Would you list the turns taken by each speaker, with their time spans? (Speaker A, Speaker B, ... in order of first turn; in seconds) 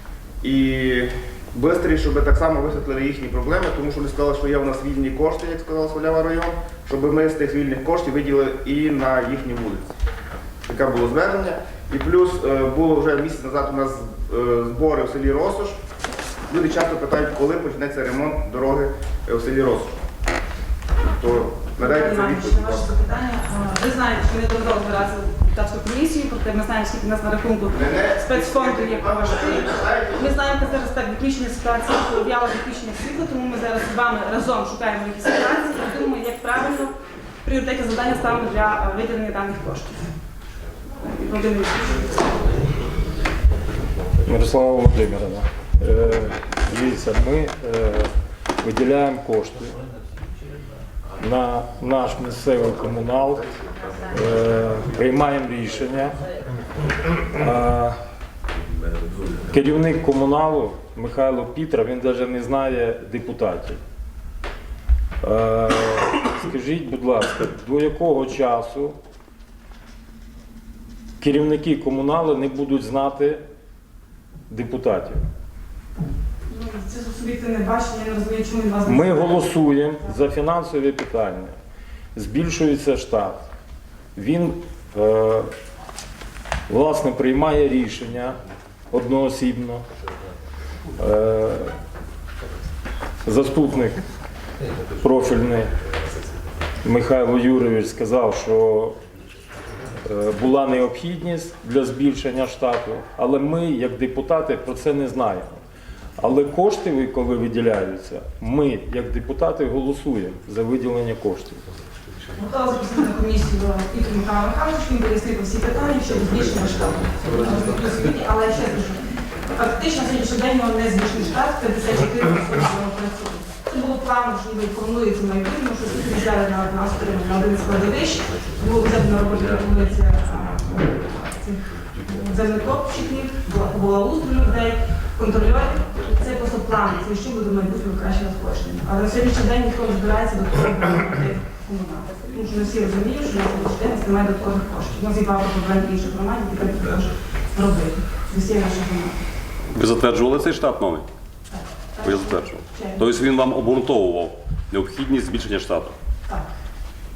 Speaker A: 0.4-9.9, 10.7-15.8, 16.5-20.0, 21.0-22.9, 27.7-30.7
Speaker B: 21.8-40.1, 41.0-42.2, 76.5-79.5, 112.3-119.0, 119.5-149.2, 151.5-153.0
Speaker C: 44.2-49.8, 51.1-53.5, 54.0-56.2, 57.1-58.0, 59.4-63.8, 65.2-69.0, 71.2-73.4, 74.5-75.2, 78.8-81.5, 82.1-83.5, 84.1-85.5, 86.7-88.4, 88.9-89.8, 91.0-91.8, 93.2-94.0, 95.0-95.7, 96.8-99.0, 100.0-105.6, 106.2-111.6
Speaker D: 149.7-151.1, 152.0-155.9